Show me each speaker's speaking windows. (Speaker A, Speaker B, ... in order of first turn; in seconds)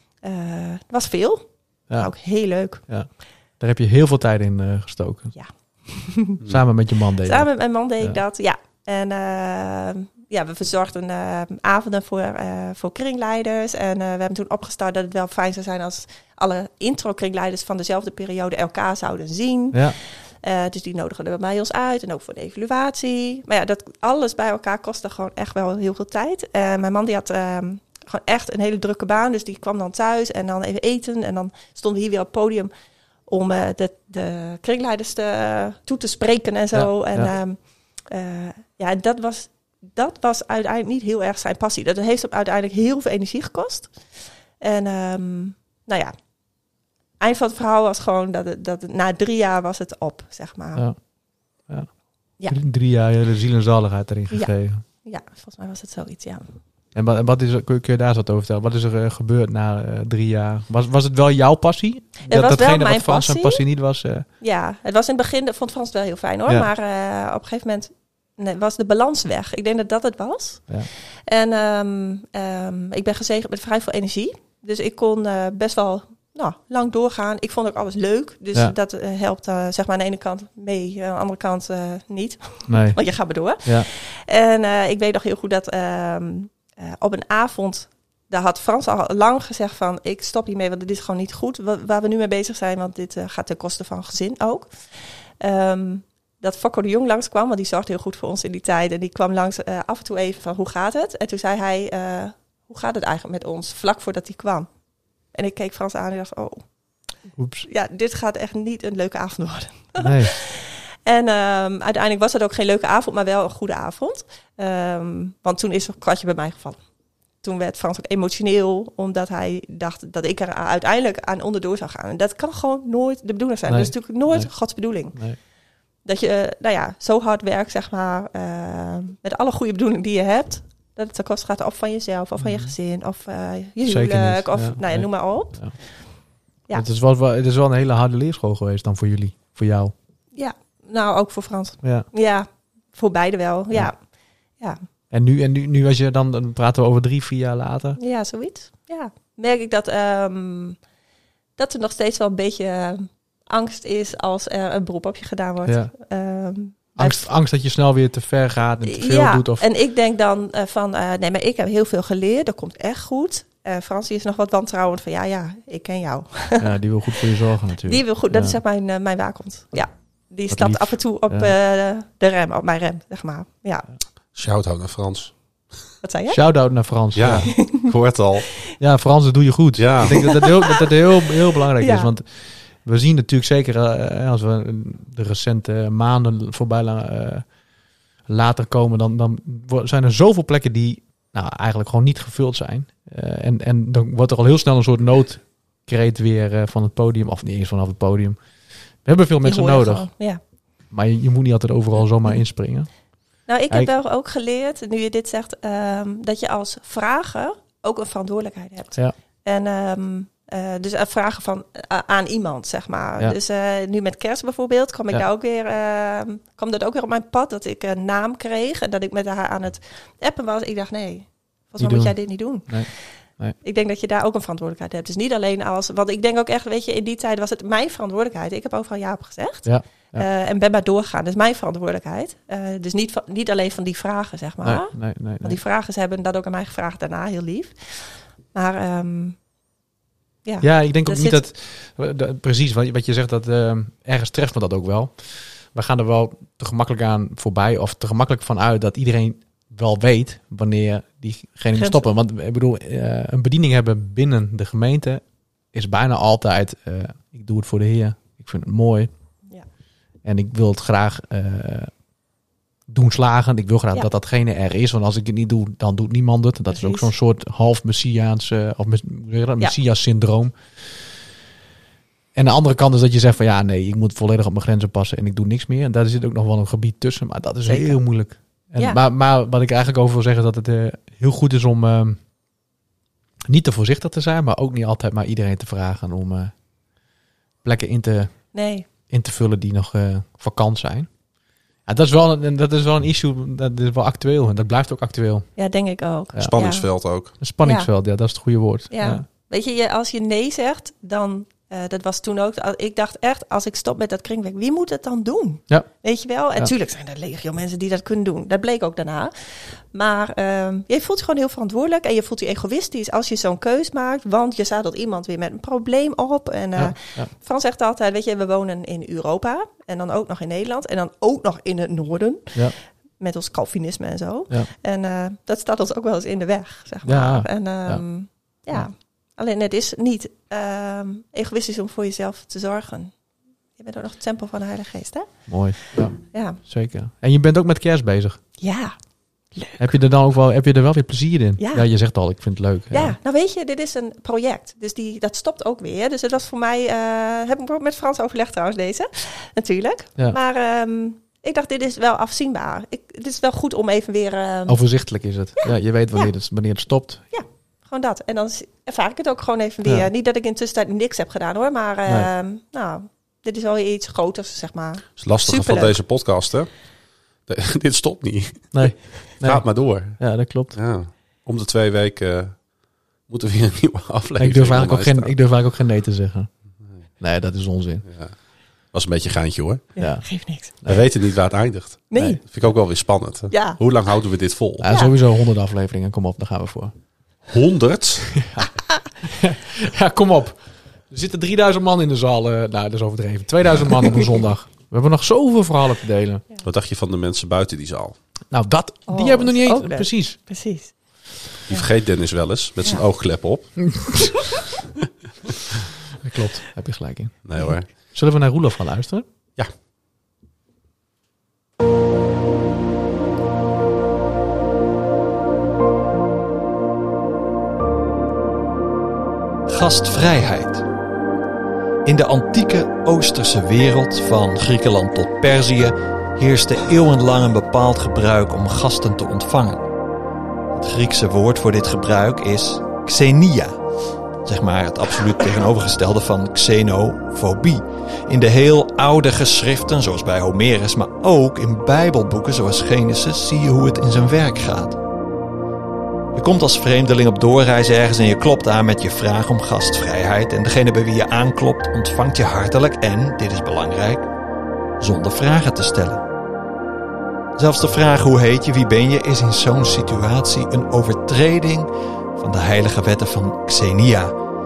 Speaker A: 0.2-2.9, 5.3-6.4, 7.2-32.7, 33.3-46.1, 47.2-50.9, 54.3-56.5, 62.3-63.7, 64.4-70.8, 71.3-104.7, 105.3-106.7, 107.6-116.8, 117.4-125.4, 126.0-136.0, 140.3-144.8, 148.0-150.8, 151.6-157.3, 158.8-173.9, 176.0-176.4, 177.6-177.9, 181.8-182.1, 199.4-200.4, 203.4-239.4, 240.4-241.4, 251.7-252.1, 266.7-267.1, 277.7-279.0, 288.5-288.9, 295.6-296.9, 297.6-297.9, 298.9-333.2, 333.8-335.6, 336.2-336.6, 338.6-339.8, 341.6-341.9, 342.9-354.8, 357.3-366.0, 379.9-380.8, 382.1-382.4, 383.5-383.8, 384.9-385.2, 399.1-401.9
Speaker B: 2.8-5.3, 6.5-8.2, 36.7-37.3, 51.7-54.8, 57.0-64.3, 82.7-83.0, 107.4-107.7, 110.0-110.3, 123.7-125.4, 132.4-132.7, 133.9-135.8, 136.7-139.9, 145.1-148.0, 155.7-155.9, 157.0-159.6, 166.6-168.6, 170.5-171.5, 176.3-177.6, 178.8-187.6, 188.3-200.1, 200.9-203.9, 221.8-223.6, 229.7-230.3, 234.6-235.6, 240.6-259.1, 260.2-261.9, 262.9-270.9, 272.4-282.2, 283.5-286.6, 287.6-288.6, 289.1-291.1, 291.9-295.5, 297.4-299.2, 316.8-317.3, 327.1-328.9, 335.5-338.4, 339.8-343.2, 354.7-357.2, 368.7-370.8, 374.4-376.5, 377.2-378.1, 380.0-381.0, 384.8-386.9, 388.4-388.7, 389.2-396.4, 398.5-400.4, 403.9-404.3, 406.2-409.3
Speaker C: 174.3-175.3, 177.1-178.5, 179.7-180.1, 296.4-297.3, 365.2-366.9, 367.4-375.4, 378.1-378.4, 378.9-379.9, 380.9-384.9, 387.5-388.3, 393.7-394.0, 396.6-398.2, 401.7-404.3, 407.4-407.9
Speaker D: 419.7-420.9, 422.1-429.9, 430.7-433.8, 434.4-445.0, 446.3-454.3, 455.0-456.2, 457.6-464.4